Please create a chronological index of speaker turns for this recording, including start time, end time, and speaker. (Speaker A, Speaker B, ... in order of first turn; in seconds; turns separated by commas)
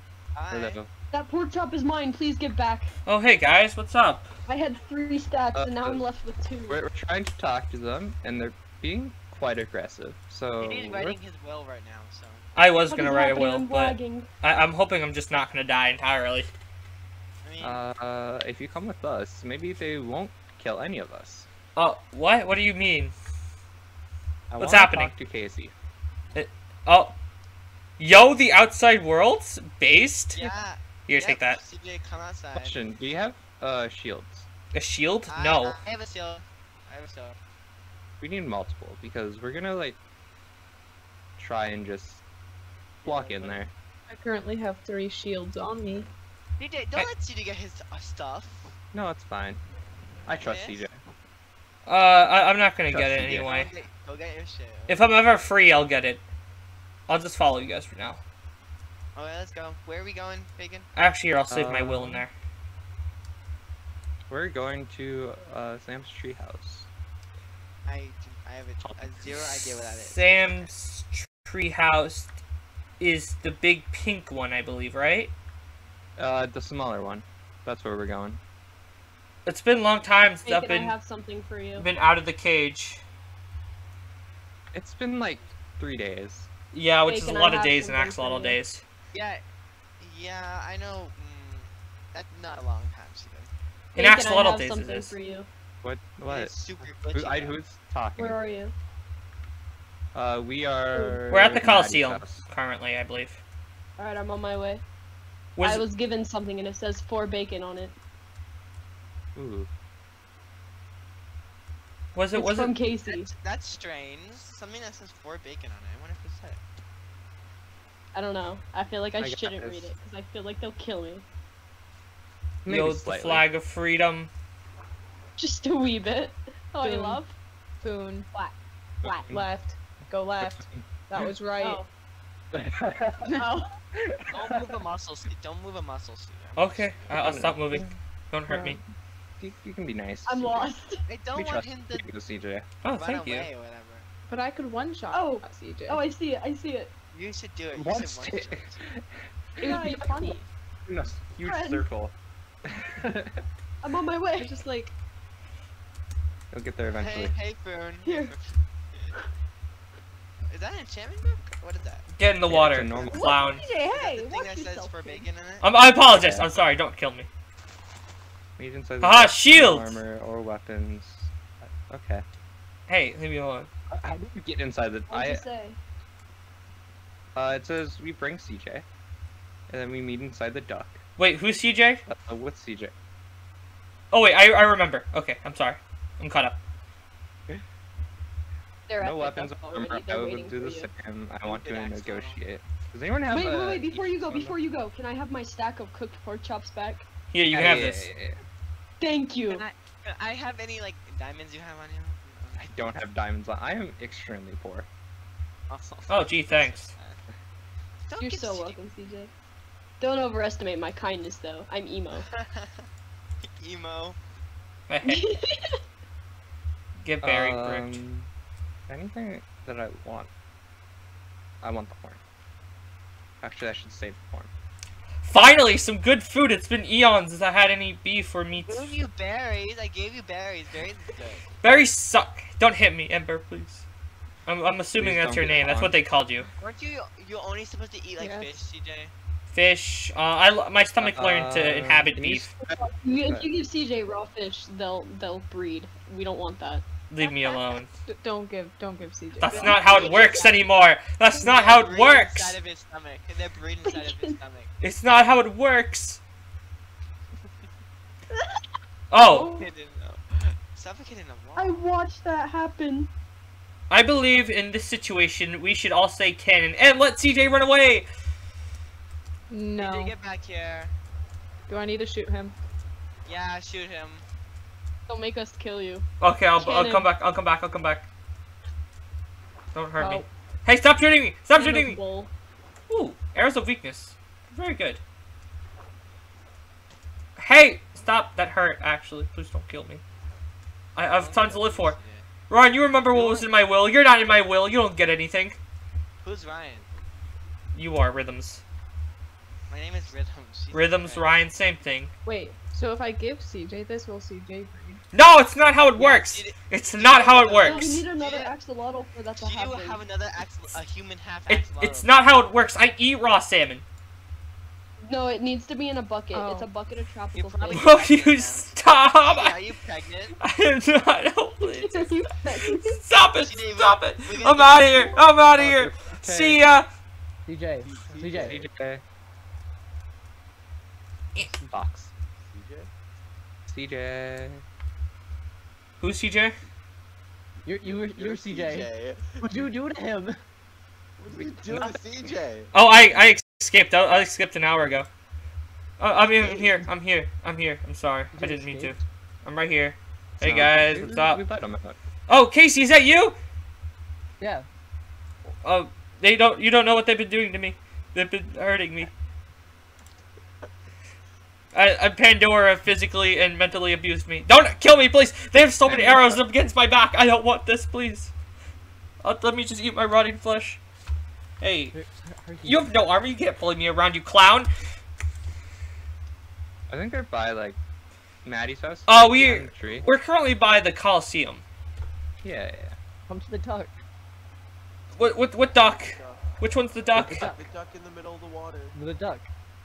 Speaker A: 0.3-0.8, Speaker B: 0.5-0.9, Speaker C: 1.1-2.9, Speaker D: 3.1-4.3, Speaker C: 4.5-6.8, Speaker B: 5.5-6.0, Speaker B: 6.7-11.2, Speaker A: 10.6-12.4, Speaker D: 12.6-16.5, Speaker C: 12.9-14.3, Speaker A: 17.4-17.8, Speaker B: 17.6-21.5, Speaker D: 21.8-23.1, Speaker B: 24.5-25.7, Speaker D: 24.6-25.1, Speaker D: 26.4-27.1, Speaker D: 28.0-30.5, Speaker A: 30.3-32.8, Speaker D: 31.1-31.6, Speaker B: 32.5-34.5, Speaker D: 34.7-35.8, Speaker A: 35.3-37.4, Speaker B: 38.2-40.0, Speaker B: 41.4-42.2, Speaker B: 43.0-43.7, Speaker A: 43.1-43.6, Speaker E: 44.1-46.1, Speaker A: 46.6-48.7, Speaker B: 48.9-49.6, Speaker B: 50.3-51.0, Speaker A: 50.4-50.9, Speaker D: 51.9-53.7, Speaker B: 52.9-53.5, Speaker A: 53.2-55.1, Speaker D: 54.9-56.2, Speaker D: 57.1-58.2, Speaker A: 59.2-60.9, Speaker D: 61.0-62.3, Speaker B: 61.5-62.2, Speaker B: 64.3-66.9, Speaker A: 67.9-70.7, Speaker B: 68.8-69.7, Speaker D: 69.9-72.4, Speaker D: 73.0-75.3, Speaker B: 76.2-78.4, Speaker D: 79.5-81.0, Speaker C: 80.4-81.9, Speaker D: 81.8-83.0, Speaker B: 84.7-86.5, Speaker D: 86.7-88.8, Speaker C: 87.1-88.6, Speaker A: 89.1-89.4, Speaker A: 90.0-93.5, Speaker D: 94.0-95.2, Speaker C: 94.0-95.5, Speaker B: 95.8-98.4, Speaker A: 96.3-97.6, Speaker C: 98.2-98.7, Speaker B: 100.1-102.5, Speaker C: 100.9-101.2, Speaker D: 101.3-103.4, Speaker C: 104.0-104.8, Speaker D: 105.6-105.8, Speaker C: 105.6-108.0, Speaker B: 109.3-109.7, Speaker D: 112.2-112.7, Speaker C: 112.3-113.3, Speaker A: 112.8-116.6, Speaker C: 118.1-121.3, Speaker B: 119.2-119.9, Speaker B: 122.7-123.5, Speaker D: 122.7-124.3, Speaker C: 125.4-127.3, Speaker E: 126.8-127.3, Speaker E: 127.8-128.3, Speaker C: 128.3-129.3, Speaker B: 129.0-129.5, Speaker E: 129.3-131.8, Speaker B: 130.4-130.8, Speaker C: 131.6-131.9, Speaker B: 132.5-133.4, Speaker C: 133.4-133.7, Speaker B: 134.0-134.8, Speaker A: 134.3-137.5, Speaker D: 136.6-138.8, Speaker B: 137.1-137.9, Speaker E: 138.5-138.8, Speaker B: 139.4-140.7, Speaker C: 140.2-141.0, Speaker A: 141.1-142.1, Speaker B: 141.3-142.7, Speaker D: 142.8-143.5, Speaker A: 142.9-144.1, Speaker E: 144.3-146.0, Speaker C: 145.1-146.9, Speaker A: 147.1-148.8, Speaker B: 147.7-150.1, Speaker C: 149.6-150.4, Speaker E: 149.8-150.3, Speaker B: 150.9-152.2, Speaker C: 151.4-151.9, Speaker B: 152.7-153.4, Speaker C: 153.8-154.7, Speaker E: 154.3-155.0, Speaker B: 156.5-157.4, Speaker A: 156.8-159.2, Speaker C: 158.0-158.3, Speaker A: 160.5-162.1, Speaker D: 162.2-163.6, Speaker B: 162.5-163.4, Speaker C: 163.1-165.3, Speaker A: 163.8-165.7, Speaker D: 165.6-167.3, Speaker B: 166.1-166.5, Speaker B: 168.6-172.3, Speaker D: 169.0-170.0, Speaker D: 172.9-173.7, Speaker B: 173.9-175.4, Speaker C: 175.1-175.8, Speaker B: 177.3-178.9, Speaker B: 179.7-181.0, Speaker D: 181.2-182.0, Speaker B: 182.1-182.9, Speaker D: 184.1-186.6, Speaker C: 188.9-190.9, Speaker B: 189.0-194.6, Speaker A: 191.5-192.4, Speaker C: 193.3-197.1, Speaker D: 197.3-198.1, Speaker B: 197.5-198.4, Speaker C: 199.0-199.6, Speaker A: 199.5-202.8, Speaker B: 202.6-204.9, Speaker A: 205.7-207.2, Speaker D: 206.1-206.9, Speaker A: 208.1-208.8, Speaker C: 208.2-209.3, Speaker C: 210.0-212.3, Speaker A: 212.2-212.8, Speaker A: 213.4-214.2, Speaker D: 214.9-215.2, Speaker C: 215.0-215.8, Speaker D: 217.0-218.0, Speaker B: 217.2-218.3, Speaker B: 218.9-220.3, Speaker B: 221.6-222.2, Speaker B: 223.4-224.5, Speaker D: 225.2-229.0, Speaker A: 228.6-231.2, Speaker F: 231.1-231.6, Speaker D: 231.6-233.8, Speaker D: 234.5-236.5, Speaker B: 235.0-235.9, Speaker A: 236.6-239.1, Speaker E: 238.2-238.7, Speaker D: 239.5-242.5, Speaker B: 241.0-243.5, Speaker C: 242.6-246.9, Speaker D: 247.1-247.9, Speaker E: 247.2-250.3, Speaker D: 249.4-252.6, Speaker A: 249.4-250.6, Speaker C: 249.6-250.4, Speaker A: 251.3-254.7, Speaker C: 253.8-254.4, Speaker D: 254.8-256.2, Speaker D: 259.1-259.5, Speaker A: 259.2-261.9, Speaker C: 259.2-259.7, Speaker C: 261.6-263.1, Speaker D: 263.9-268.1, Speaker E: 269.5-270.2, Speaker A: 269.8-270.9, Speaker E: 271.7-272.6, Speaker A: 273.3-274.2, Speaker C: 275.1-277.1, Speaker D: 276.2-278.1, Speaker D: 279.7-282.0, Speaker E: 280.0-280.2, Speaker C: 281.6-282.3, Speaker D: 282.9-285.0, Speaker D: 287.4-290.0, Speaker D: 291.0-292.0, Speaker A: 291.0-292.3, Speaker D: 292.5-295.6, Speaker A: 296.2-296.9, Speaker D: 297.7-298.6, Speaker A: 299.7-301.3, Speaker D: 300.7-302.1, Speaker E: 302.2-305.0, Speaker D: 305.1-308.0, Speaker A: 306.0-308.5, Speaker C: 307.6-310.1, Speaker A: 309.4-312.2, Speaker D: 311.5-313.8, Speaker C: 315.0-318.0, Speaker E: 316.3-316.7, Speaker A: 317.4-320.3, Speaker D: 317.7-319.6, Speaker D: 320.4-326.9, Speaker C: 321.6-323.0, Speaker A: 323.3-325.2, Speaker B: 325.6-326.6, Speaker G: 327.5-328.6, Speaker F: 327.8-328.6, Speaker B: 328.3-329.0, Speaker G: 331.4-331.7, Speaker B: 331.7-332.1, Speaker F: 332.4-332.9, Speaker B: 333.7-334.6, Speaker D: 336.0-336.6, Speaker G: 337.6-340.4, Speaker F: 337.8-339.7, Speaker F: 341.2-342.8, Speaker G: 341.7-342.0, Speaker D: 342.7-345.1, Speaker D: 346.0-351.4, Speaker G: 346.6-346.8, Speaker G: 348.3-349.0, Speaker B: 350.4-352.0, Speaker D: 352.3-353.4, Speaker G: 354.4-354.7, Speaker D: 355.6-359.1, Speaker D: 361.7-368.3, Speaker B: 365.9-366.4, Speaker D: 369.2-370.8, Speaker D: 371.6-371.9, Speaker G: 371.9-372.9, Speaker D: 372.6-374.7, Speaker B: 376.9-377.8, Speaker B: 378.4-380.1, Speaker D: 379.1-381.6, Speaker B: 382.4-383.0, Speaker G: 383.3-384.0, Speaker D: 385.1-387.5, Speaker F: 385.2-386.6, Speaker F: 387.1-388.9, Speaker G: 387.1-387.6, Speaker G: 388.9-389.5